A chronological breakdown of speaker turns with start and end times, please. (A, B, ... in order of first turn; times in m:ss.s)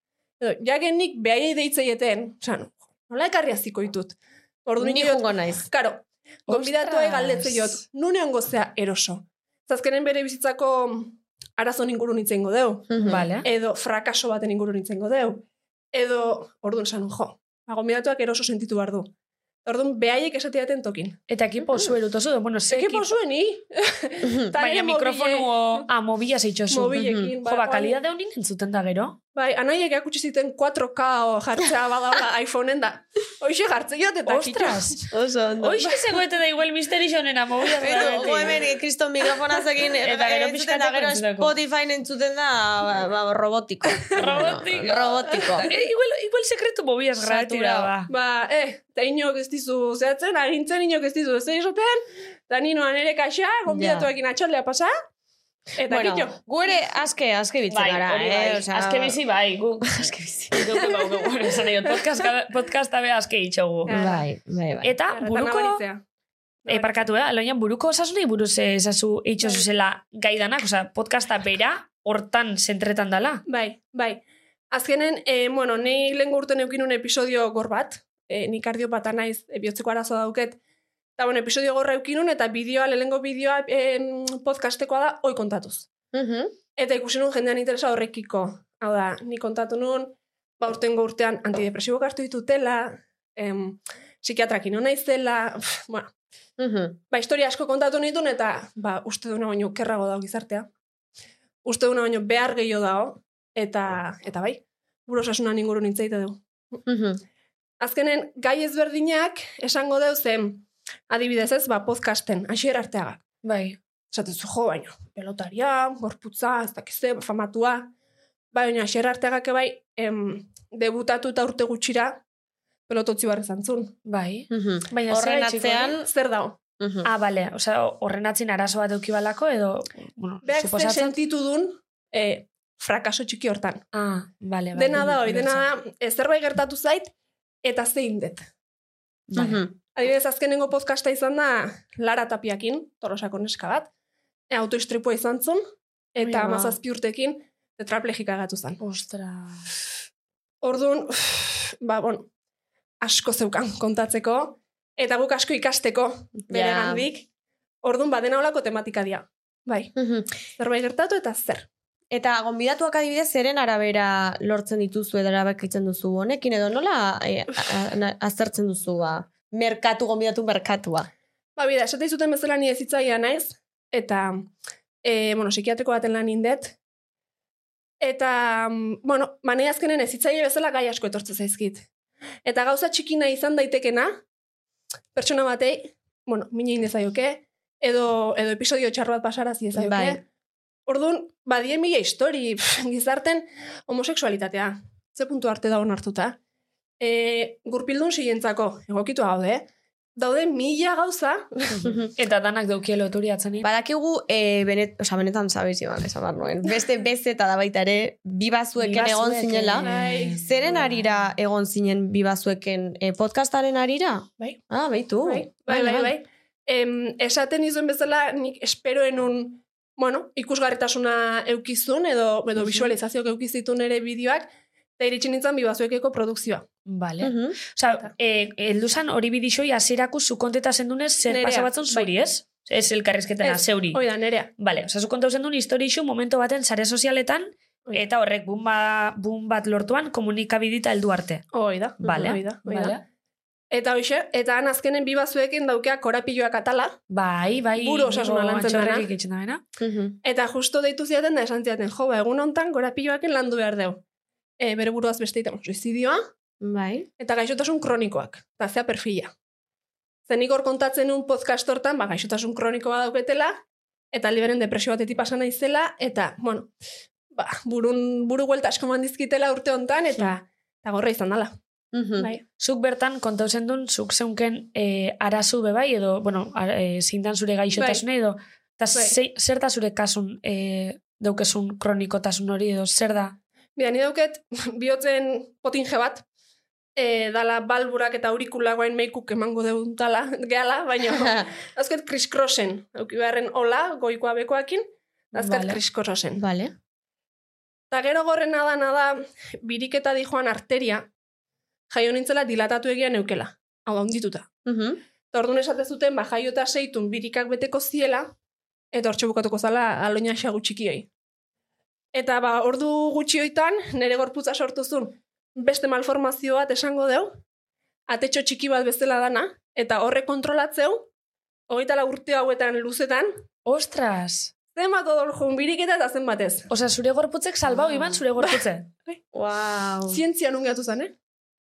0:00.4-0:19.1 A
0:04.8-0:05.7 B
0:06.5-0:07.8 C
0:12.9-0:13.3 B
0:13.1-0:13.5 C
0:19.6-0:21.2 A
0:21.3-0:23.1 C
0:22.7-0:25.9 A
0:24.2-0:24.5 B
0:24.6-0:29.2 C
0:26.7-0:28.0 A
0:27.0-0:27.3 B
0:29.4-0:35.0 A
0:34.3-0:35.1 C
0:35.1-0:35.9 B
0:35.6-0:38.6 C
0:37.8-0:45.7 B
0:37.9-0:38.5 A
0:40.0-0:41.6 C
0:44.2-0:48.1 C
0:45.3-0:45.7 A
0:47.2-0:47.9 B
0:48.1-0:54.9 A
0:53.7-0:54.1 B
0:55.8-0:56.4 A
0:55.9-0:59.2 B
0:57.7-1:04.0 C
0:59.8-1:01.0 B
1:03.9-1:04.3 A
1:03.9-1:04.9 B
1:04.8-1:05.8 C
1:05.1-1:06.0 A
1:06.6-1:07.1 A
1:06.7-1:13.4 C
1:13.5-1:20.6 A
1:21.2-1:25.9 A
1:26.1-1:26.6 B
1:26.8-1:36.1 A
1:36.6-1:37.0 B
1:37.1-1:40.7 A
1:41.6-1:46.8 A
1:46.9-1:47.2 B
1:47.8-1:53.2 A
1:53.4-1:53.8 C
1:54.1-1:57.9 A
1:58.5-2:02.2 A
2:02.9-2:04.0 A
2:04.1-2:06.0 C
2:04.5-2:06.1 B
2:06.0-2:06.6 A
2:06.8-2:07.1 B
2:07.0-2:11.1 C
2:10.4-2:13.8 A
2:13.9-2:15.6 C
2:14.8-2:17.1 A
2:17.6-2:18.5 A
2:19.3-2:19.6 C
2:19.4-2:19.7 B
2:20.0-2:23.9 A
2:24.5-2:25.6 A
2:26.2-2:28.8 A
2:26.3-2:26.7 C
2:28.8-2:29.6 C
2:30.6-2:32.3 A
2:33.0-2:37.3 A
2:36.5-2:37.0 C
2:37.8-2:39.9 A
2:40.0-2:40.3 B
2:40.6-2:41.7 A
2:42.1-2:51.1 B
2:51.6-2:54.5 A
2:55.0-2:56.8 A
2:58.0-3:01.9 A
3:02.4-3:04.1 A
3:05.2-3:10.2 A
3:09.8-3:10.2 B
3:10.9-3:16.4 A
3:17.0-3:21.8 A
3:21.8-3:23.7 C
3:21.8-3:22.1 B
3:23.6-3:36.1 B
3:28.8-3:30.9 C
3:29.8-3:30.4 A
3:35.2-3:46.7 A
3:46.9-3:54.0 C
3:47.2-3:47.6 B
3:51.3-3:52.1 A
3:53.4-3:54.5 A
3:54.6-4:01.4 C
4:01.5-4:03.0 A
4:02.0-4:03.0 C
4:02.0-4:02.4 B
4:03.7-4:07.0 A
4:07.1-4:09.6 C
4:07.8-4:09.1 A
4:09.8-4:10.2 B
4:10.2-4:14.0 A
4:14.6-4:16.2 A
4:16.6-4:17.1 B
4:17.2-4:19.3 A
4:20.3-4:23.6 A
4:24.1-4:26.7 A
4:27.3-4:31.6 A
4:31.9-4:32.3 B
4:32.2-4:32.4 A
4:32.6-4:43.4 C
4:37.8-4:38.0 A
4:43.8-4:46.2 A
4:47.0-4:56.4 A
4:51.1-4:51.5 B
4:55.4-4:55.8 C
4:56.4-4:56.7 B
4:57.9-5:01.1 A
5:01.9-5:04.5 A
5:04.6-5:05.0 B
5:05.3-5:08.3 A
5:08.9-5:11.1 A
5:12.2-5:17.3 A
5:18.1-5:21.1 A
5:21.7-5:23.3 A
5:23.7-5:24.5 C
5:24.8-5:26.7 A
5:26.7-5:28.9 C
5:27.7-5:28.2 B
5:28.4-5:29.2 A
5:29.3-5:30.2 B
5:30.1-5:31.1 A